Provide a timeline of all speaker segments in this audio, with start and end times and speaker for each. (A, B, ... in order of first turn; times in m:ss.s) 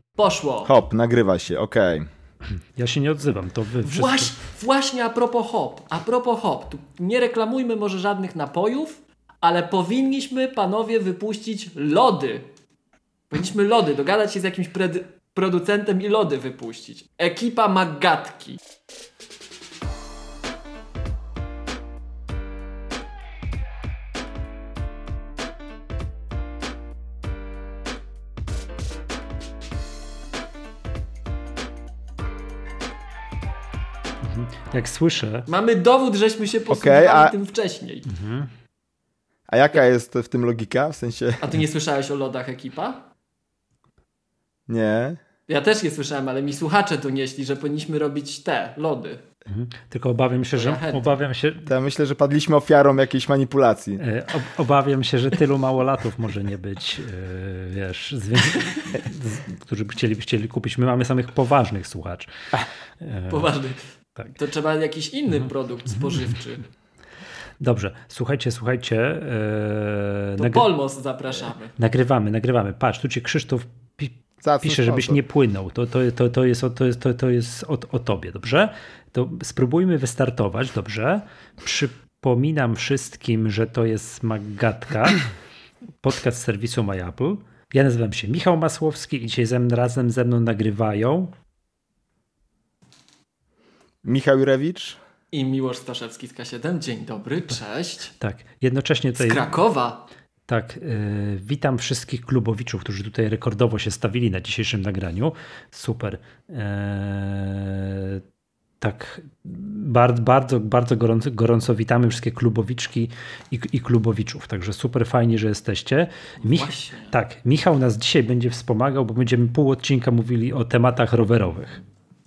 0:00.2-0:00.7 A
0:00.6-0:02.1 B
0:02.6-0:04.3 C
0:03.8-0:12.5 A
0:13.3-0:18.6 A
0:34.2-0:35.5 C
0:35.5-0:38.1 A
0:36.7-0:37.3 B
0:38.1-0:38.5 C
0:39.5-0:41.5 B
0:41.4-0:43.0 A
0:44.7-0:45.2 B
0:45.5-0:49.2 A
0:49.5-0:51.7 C
0:50.6-0:51.1 A
0:51.7-0:54.0 B
0:54.0-1:02.3 C
1:03.0-1:03.5 C
1:03.3-1:03.8 A
1:04.4-1:06.6 A
1:07.6-1:10.7 C
1:10.4-1:11.7 A
1:11.8-1:25.3 C
1:14.4-1:15.2 B
1:26.0-1:31.3 C
1:34.0-1:35.0 B
1:35.3-1:38.1 A
1:38.2-1:39.4 C
1:39.2-1:40.0 A
1:40.5-1:48.2 C
1:48.8-2:01.8 C
1:56.4-1:57.1 A